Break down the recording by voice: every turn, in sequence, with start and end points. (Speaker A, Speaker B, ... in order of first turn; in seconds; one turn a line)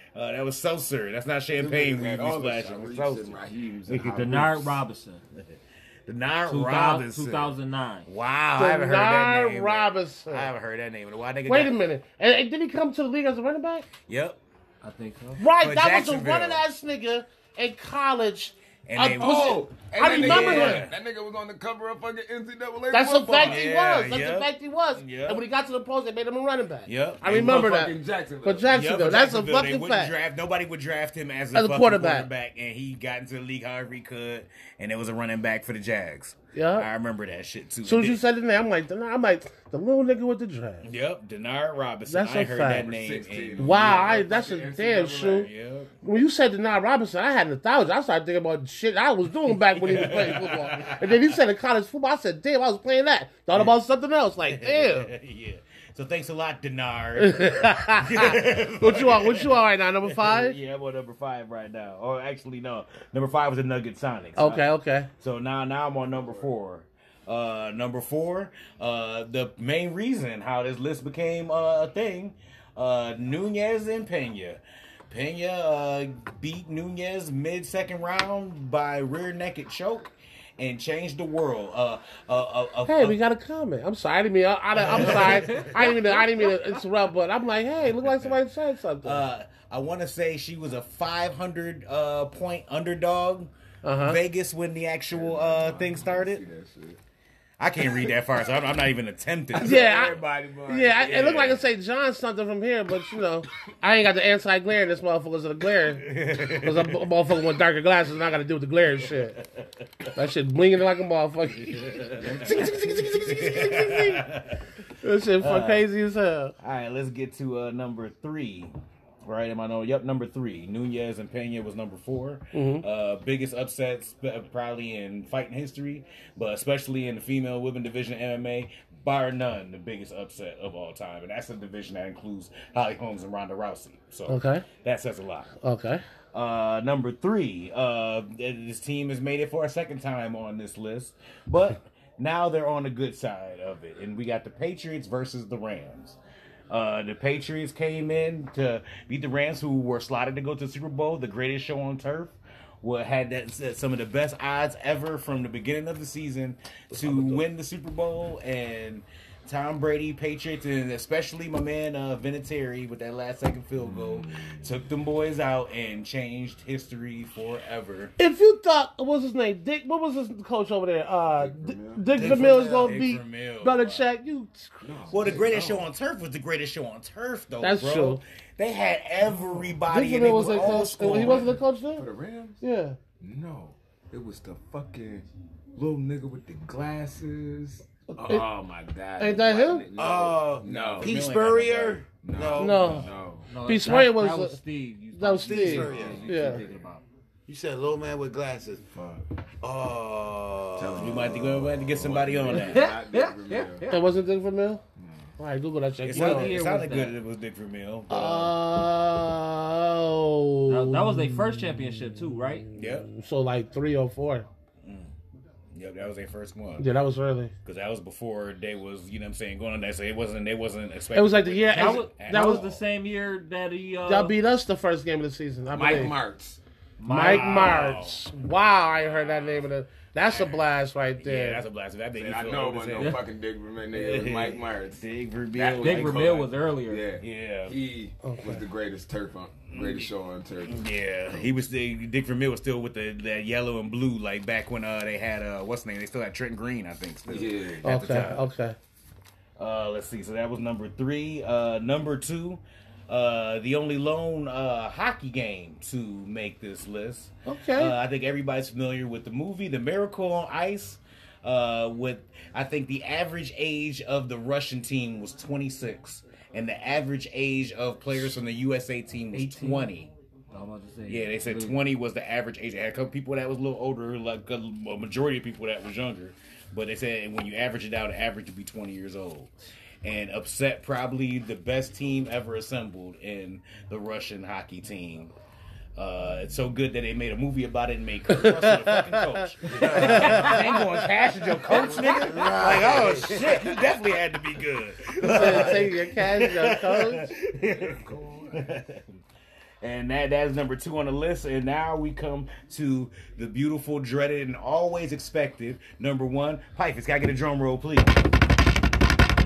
Speaker A: 0.1-4.8
Speaker B: 1.5-4.5
Speaker C: 4.0-5.2
Speaker A: 5.4-11.8
Speaker C: 6.5-8.1
Speaker D: 8.6-10.5
Speaker D: 11.5-13.8
Speaker A: 14.1-14.4
Speaker C: 14.8-15.4
Speaker D: 15.4-20.9
Speaker A: 15.6-16.6
Speaker A: 18.9-20.9
Speaker B: 19.2-23.6
Speaker D: 22.9-30.1
Speaker A: 23.3-25.4
Speaker A: 26.9-27.7
Speaker B: 27.3-28.7
Speaker A: 28.7-38.2
Speaker D: 31.5-32.3
Speaker D: 36.5-36.9
Speaker D: 37.8-40.9
Speaker A: 40.8-44.1
Speaker D: 42.1-42.9
Speaker B: 42.8-45.5
Speaker D: 43.6-45.5
Speaker A: 45.3-45.9
Speaker D: 46.0-55.1
Speaker A: 49.5-51.4
Speaker A: 54.5-64.7
Speaker D: 57.2-60.6
Speaker D: 64.3-65.1
Speaker A: 65.2-83.2
Speaker B: 66.2-66.5
Speaker D: 82.8-89.2
Speaker A: 84.8-85.9
Speaker C: 85.1-86.0
Speaker A: 87.9-88.4
Speaker A: 89.0-96.4
Speaker D: 93.8-94.2
Speaker B: 95.1-97.0
Speaker A: 97.6-100.0
Speaker B: 99.5-101.2
Speaker D: 99.6-109.4
Speaker A: 101.0-101.6
Speaker A: 105.9-107.1
Speaker A: 109.0-110.1
Speaker D: 110.1-114.3
Speaker A: 111.5-114.6
Speaker D: 115.0-116.5
Speaker A: 115.4-115.8
Speaker A: 116.6-118.7
Speaker A: 119.2-135.5
Speaker D: 122.5-122.8
Speaker D: 134.3-134.6
Speaker D: 135.6-136.0
Speaker A: 136.3-146.2
Speaker A: 146.7-168.1
Speaker B: 157.0-157.3
Speaker B: 163.8-164.7
Speaker D: 168.2-175.5
Speaker B: 171.4-172.5
Speaker E: 172.2-173.0
Speaker A: 172.2-174.1
Speaker B: 174.8-175.9
Speaker A: 175.1-181.5
Speaker D: 177.6-178.2
Speaker B: 179.3-179.8
Speaker D: 179.9-182.0
Speaker B: 180.3-182.6
Speaker D: 182.6-183.0
Speaker B: 183.2-191.2
Speaker D: 189.2-189.8
Speaker E: 189.9-193.1
Speaker A: 190.4-192.0
Speaker B: 192.2-193.6
Speaker D: 192.5-193.1
Speaker C: 193.5-197.0
Speaker D: 193.6-194.6
Speaker D: 195.1-196.6
Speaker E: 195.4-196.5
Speaker B: 195.8-196.8
Speaker E: 197.5-198.8
Speaker B: 198.9-199.3
Speaker E: 199.6-201.2
Speaker B: 200.8-203.8
Speaker A: 200.9-202.9
Speaker C: 202.5-204.1
Speaker D: 203.9-204.8
Speaker B: 205.0-205.3
Speaker D: 205.4-206.5
Speaker A: 206.0-208.5
Speaker C: 206.1-207.2
Speaker D: 208.1-211.6
Speaker C: 210.7-212.7
Speaker D: 212.7-214.4
Speaker A: 212.7-213.1
Speaker A: 214.8-215.1
Speaker A: 215.7-216.9
Speaker D: 216.8-217.5
Speaker A: 217.6-222.8
Speaker D: 221.1-222.6
Speaker C: 221.7-224.3
Speaker D: 224.0-226.2
Speaker B: 225.7-226.6
Speaker C: 227.0-227.9
Speaker A: 227.1-228.2
Speaker D: 227.1-231.6
Speaker A: 229.0-229.6
Speaker A: 230.2-230.6
Speaker A: 231.2-233.2
Speaker B: 232.1-235.0
Speaker A: 233.9-236.5
Speaker B: 235.5-240.8
Speaker C: 235.8-237.1
Speaker A: 237.2-237.8
Speaker D: 238.2-238.6
Speaker A: 239.7-240.1
Speaker A: 240.7-248.4
Speaker B: 247.3-248.3
Speaker D: 247.8-248.8
Speaker A: 249.6-270.1
Speaker D: 257.4-257.9
Speaker C: 269.3-269.9
Speaker C: 270.5-271.8
Speaker A: 271.1-279.5
Speaker A: 280.0-285.3
Speaker A: 285.9-298.0
Speaker D: 288.3-290.8
Speaker E: 289.7-290.7
Speaker D: 291.5-292.6
Speaker B: 291.8-292.1
Speaker E: 292.2-293.8
Speaker E: 295.2-295.8
Speaker D: 295.2-297.3
Speaker B: 297.6-298.7
Speaker A: 298.5-299.1
Speaker A: 299.8-308.6